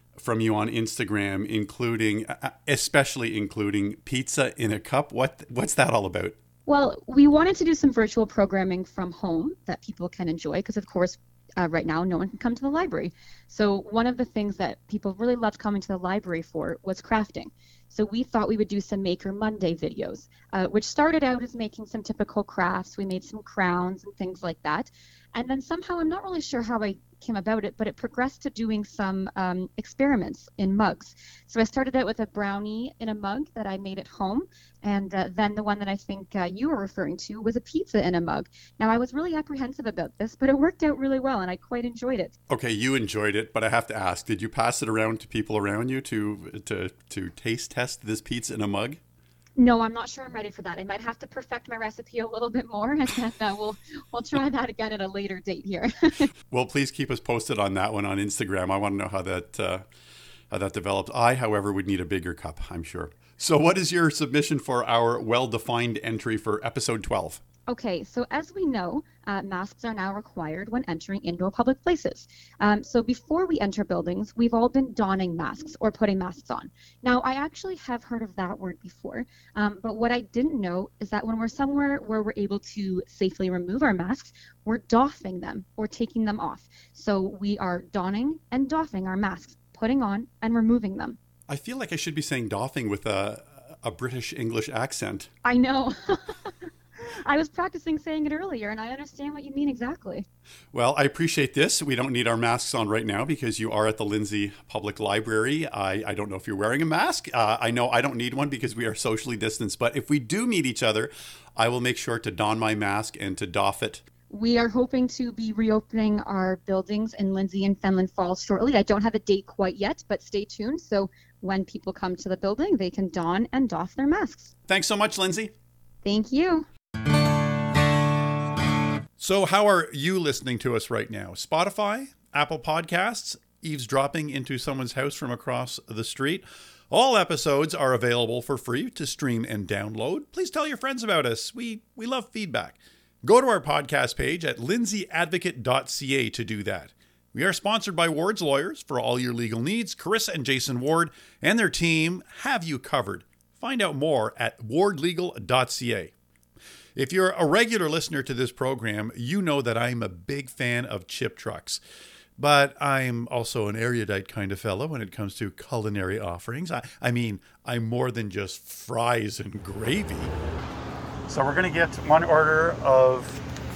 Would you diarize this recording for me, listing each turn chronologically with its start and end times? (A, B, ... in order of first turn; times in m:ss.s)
0:00.2-0:06.4 A
0:06.7-0:42.3 B
0:42.5-0:49.0 A
0:49.6-0:56.3 B
0:56.5-0:59.8 A
1:00.5-1:07.4 A
1:07.7-1:31.2 B
1:31.5-1:35.3 A
1:35.4-1:36.5 B
1:37.2-1:40.2 B
1:40.7-1:54.0 A
1:54.3-2:04.5 B
2:04.7-2:05.5 A
2:06.0-2:06.7 B
2:09.2-2:36.1 A
2:37.0-2:41.8 A
2:42.4-2:50.3 A
2:51.3-2:53.4 A